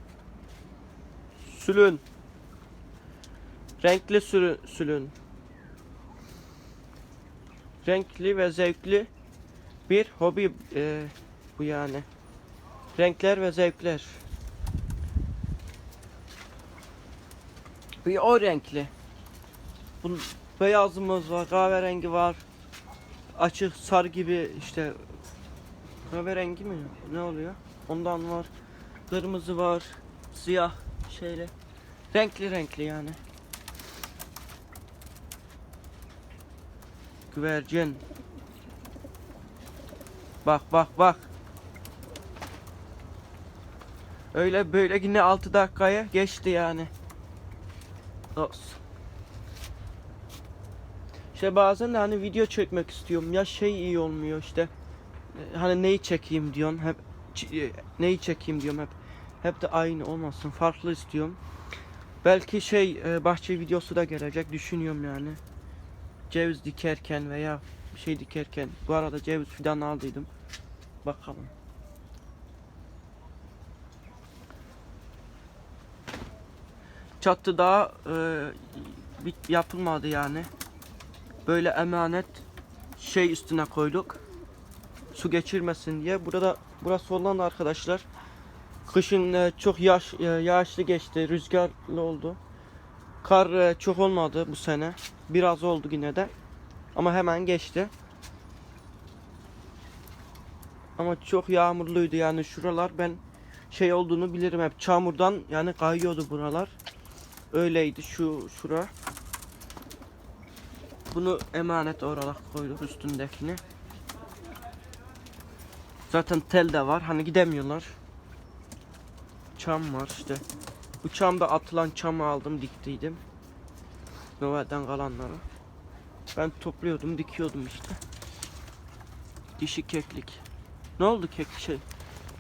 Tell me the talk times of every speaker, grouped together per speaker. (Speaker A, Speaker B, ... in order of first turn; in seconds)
Speaker A: 1.4-2.0, 3.8-5.1, 7.8-9.1, 9.9-12.1, 13.0-14.2, 18.0-18.9, 20.0-22.4, 23.4-25.0, 26.1-28.5, 29.1-31.5, 32.1-33.2, 37.3-38.0, 40.5-41.3, 44.3-46.9, 48.4-48.8, 51.3-54.7, 55.3-61.4, 62.2-65.4, 66.3-70.3, 71.0-71.5, 77.2-80.5, 81.5-82.4, 83.0-84.2, 85.1-88.1, 88.9-92.4, 93.2-96.3, 97.0-97.9, 101.0-103.2, 103.7-106.8, 107.5-108.9, 111.1-113.6, 116.1-118.0, 119.5-120.4, 121.0-123.2, 124.4-125.4, 126.3-128.0, 129.6-130.4, 131.0-131.8